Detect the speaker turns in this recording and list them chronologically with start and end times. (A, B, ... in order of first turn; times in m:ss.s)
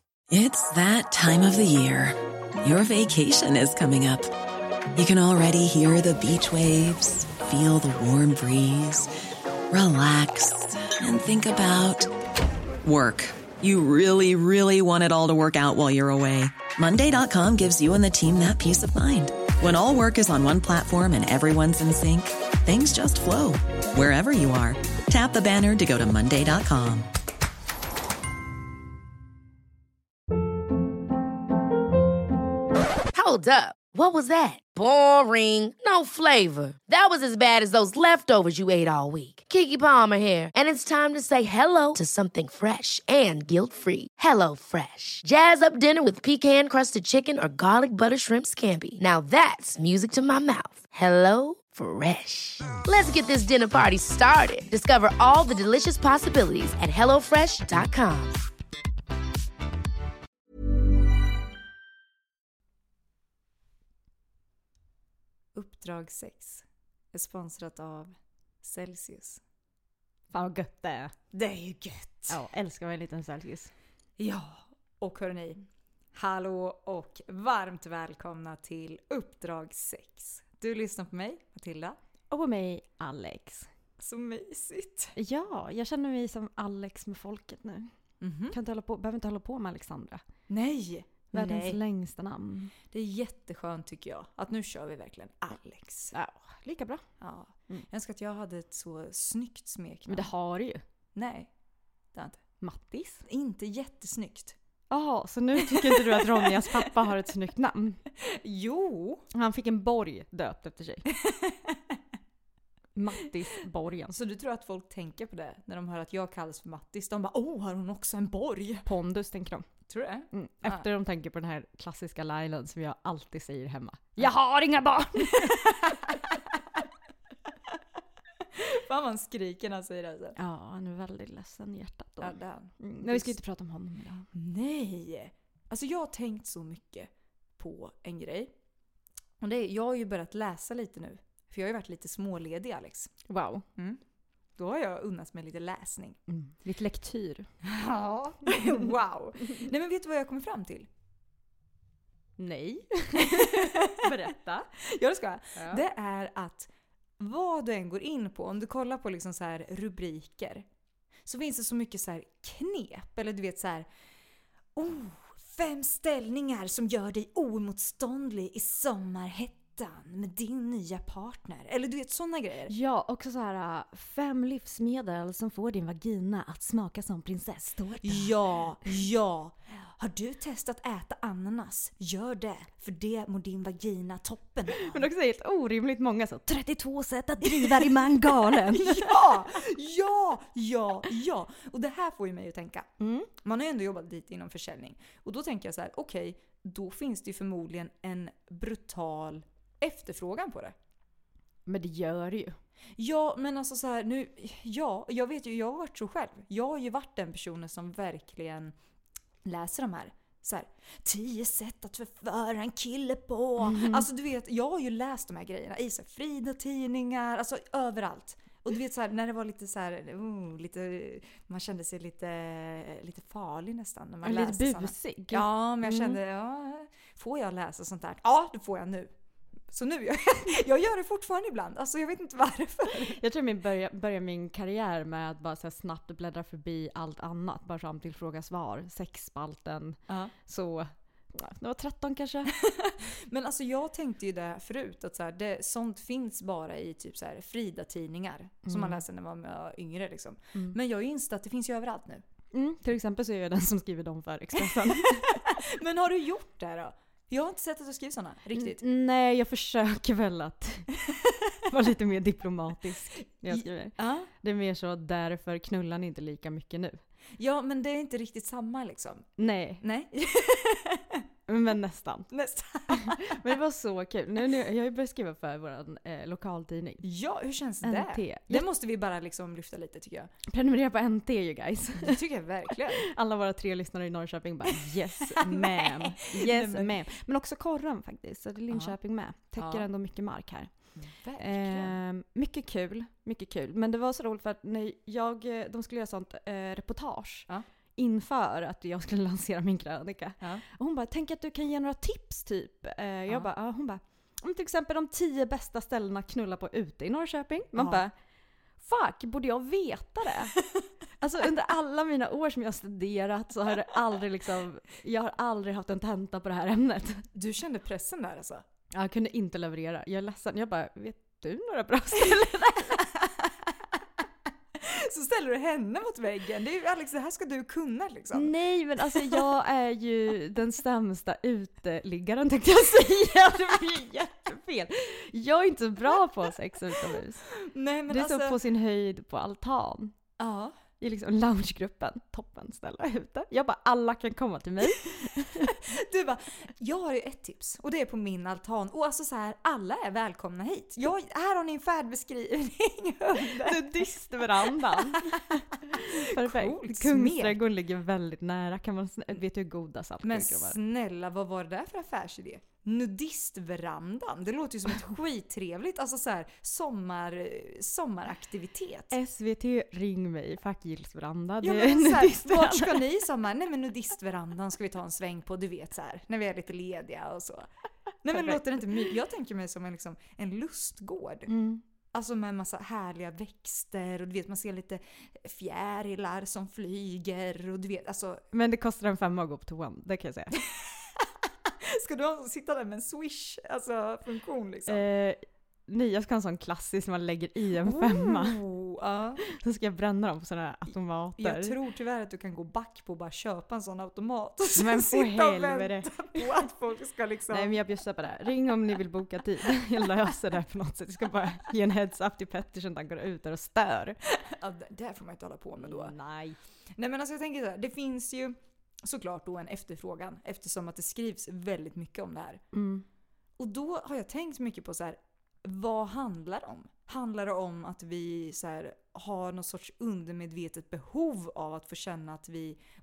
0:00.3-0:04.3 A
0:04.9-0:09.1 A
0:09.7-0:12.1 A
0:12.8-0:27.1 A
0:33.1-0:58.4 B
1:05.5-1:09.4 C
1:10.3-1:11.1 D
1:11.3-1:12.4 C
1:12.3-1:13.7 D
1:14.2-1:22.0 C
1:22.3-1:23.7 D
1:24.0-1:25.1 C
1:25.2-1:27.9 D
1:28.2-1:28.6 C
1:28.5-1:30.2 D
1:30.5-1:31.8 C
1:31.3-1:32.7 D
1:32.9-1:36.1 C
1:36.1-1:37.0 D
1:37.2-1:40.3 C
1:40.1-1:40.8 D
1:41.1-1:41.5 C
1:42.1-1:42.4 C
1:42.6-1:43.2 D
1:43.2-1:44.6 C
1:44.9-1:48.0 D
1:45.6-1:46.9 C
1:48.2-1:49.2 C
1:49.3-1:51.1 D
1:51.1-1:51.9 C
1:53.0-1:54.2 D
1:54.1-1:58.9 C
1:58.8-1:59.7 D
1:59.9-2:00.8 C
2:00.3-2:06.1 D
2:05.2-2:06.6 C
2:08.5-2:10.4 C
2:10.4-2:14.3 D
2:12.2-2:13.4 C
2:14.3-2:18.5 C
2:19.4-2:23.1 C
2:23.3-2:23.6 D
2:23.8-2:24.0 C
2:24.6-2:26.2 C
2:26.3-2:27.5 D
2:27.6-2:30.9 C
2:32.4-2:34.7 D
2:33.2-2:34.0 C
2:34.8-2:40.6 C
2:35.5-2:35.8 D
2:41.2-2:43.9 C
2:44.8-2:52.7 C
2:52.7-2:58.4 D
2:58.0-3:05.0 C
3:04.7-3:09.3 D
3:07.4-3:20.7 C
3:13.0-3:13.3 D
3:21.7-3:22.6 D
3:23.0-3:28.7 C
3:29.4-3:49.1 C
3:33.6-3:34.0 D
3:44.2-3:46.2 D
3:49.7-3:53.2 C
3:53.1-4:02.5 D
4:00.1-4:00.3 C
4:02.5-4:12.2 C
4:08.6-4:09.0 D
4:12.5-4:15.4 D
4:14.6-4:18.8 C
4:18.5-4:20.9 D
4:21.6-4:27.0 D
4:23.5-4:24.3 C
4:27.4-4:31.2 C
4:29.4-4:29.8 D
4:31.5-4:32.3 D
4:32.3-4:33.5 C
4:32.9-4:37.0 D
4:37.0-4:40.3 C
4:37.8-4:38.6 D
4:40.5-4:42.2 D
4:42.0-4:43.1 C
4:43.0-4:50.7 D
4:44.7-4:47.0 C
4:49.6-4:49.9 C
4:51.0-4:52.0 C
4:51.4-5:08.1 D
5:07.8-5:08.0 C
5:08.8-5:10.6 D
5:11.2-5:17.2 D
5:17.3-5:18.6 C
5:18.9-5:23.2 D
5:23.0-5:23.7 C
5:24.7-5:28.5 C
5:28.3-5:37.4 D
5:29.0-5:29.4 C
5:37.5-5:38.6 C
5:38.1-5:40.1 D
5:40.4-5:40.8 C
5:41.0-5:45.8 D
5:45.6-5:57.6 C
5:53.4-6:00.8 D
6:00.2-6:09.2 C
6:09.1-6:13.0 D
6:11.6-6:17.7 C
6:18.2-6:21.5 C
6:18.3-6:18.6 D
6:21.5-6:21.8 D
6:22.1-6:28.4 C
6:28.5-6:30.6 D
6:30.6-6:35.0 C
6:34.9-6:38.6 D
6:37.8-6:39.4 C
6:39.4-6:41.8 D
6:41.4-6:47.8 C
6:44.7-6:46.5 D
6:47.5-6:54.2 D
6:54.3-6:56.1 C
6:55.8-6:56.6 D
6:57.0-7:02.6 C
7:02.7-7:03.0 D
7:03.6-7:12.8 C